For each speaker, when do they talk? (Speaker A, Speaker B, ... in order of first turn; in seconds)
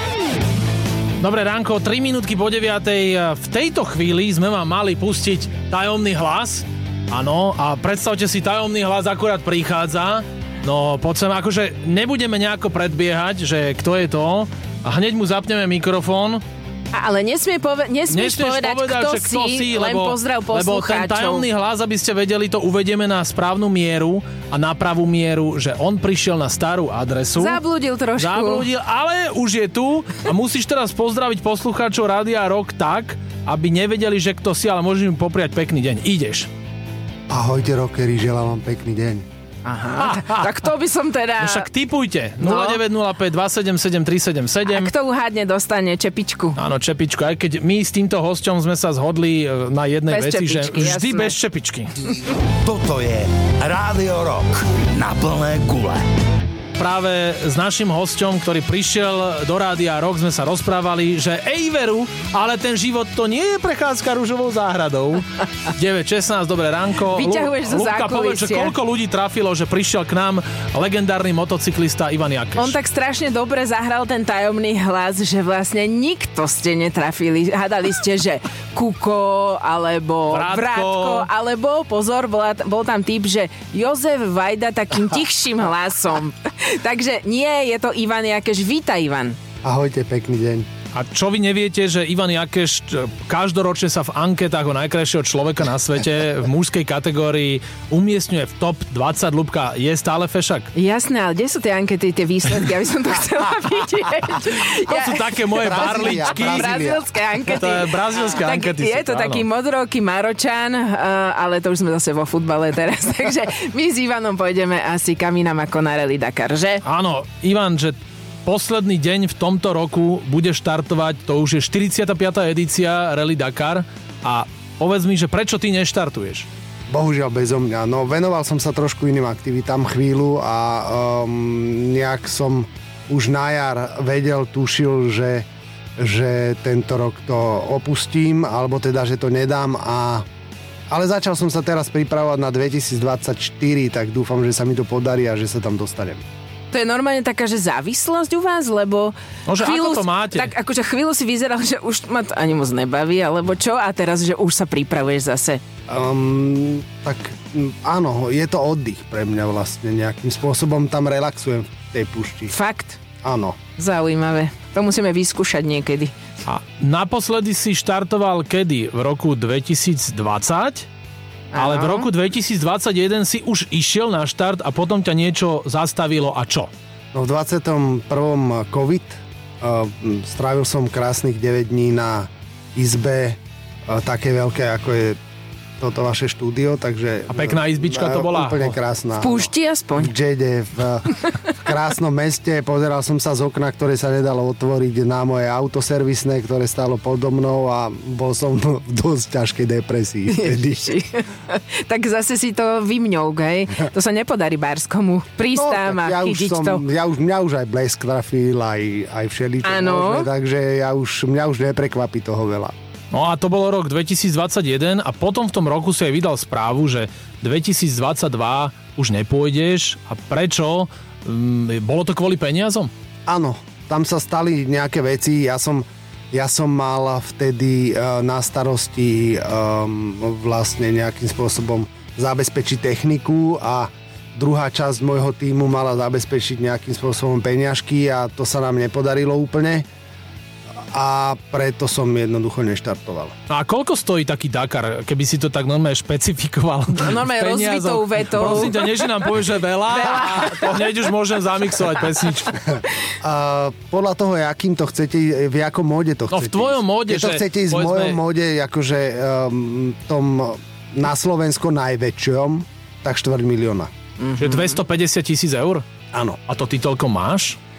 Speaker A: 1.2-16.4, 18.1-27.6, 28.2-36.5, 40.0-40.5, 41.4-44.9, 46.5-52.0, 56.8-72.8, 80.3-81.3, 90.9-100.7, 104.8-106.7, 107.5-109.5, 116.8-126.5, 149.5-150.5, 166.4-170.9, 171.6-176.7, 187.3-188.8, 213.1-222.9, 243.5-252.7, 256.3-258.2, 264.4-265.8, 266.5-267.6
Speaker B: 16.9-21.4, 27.3-28.7, 39.6-41.7, 42.4-42.8, 44.6-46.6, 50.1-51.4, 67.1-68.7, 72.5-89.4, 100.7-116.8, 146.7-155.6, 162.5-163.0, 163.8-166.1, 171.5-172.1, 189.2-190.1, 200.3-206.8, 209.6-210.3, 246.9-249.2, 249.9-251.1, 264.2-264.8
Speaker C: 37.3-39.2, 89.6-90.7, 105.6-107.0, 126.9-135.4, 136.0-140.2, 140.9-146.2, 155.9-162.5, 163.2-163.6, 177.1-185.2, 185.8-200.9, 205.5-212.7, 223.3-239.8, 240.9-243.3, 253.2-263.9, 266.1-266.4
Speaker D: 52.6-56.1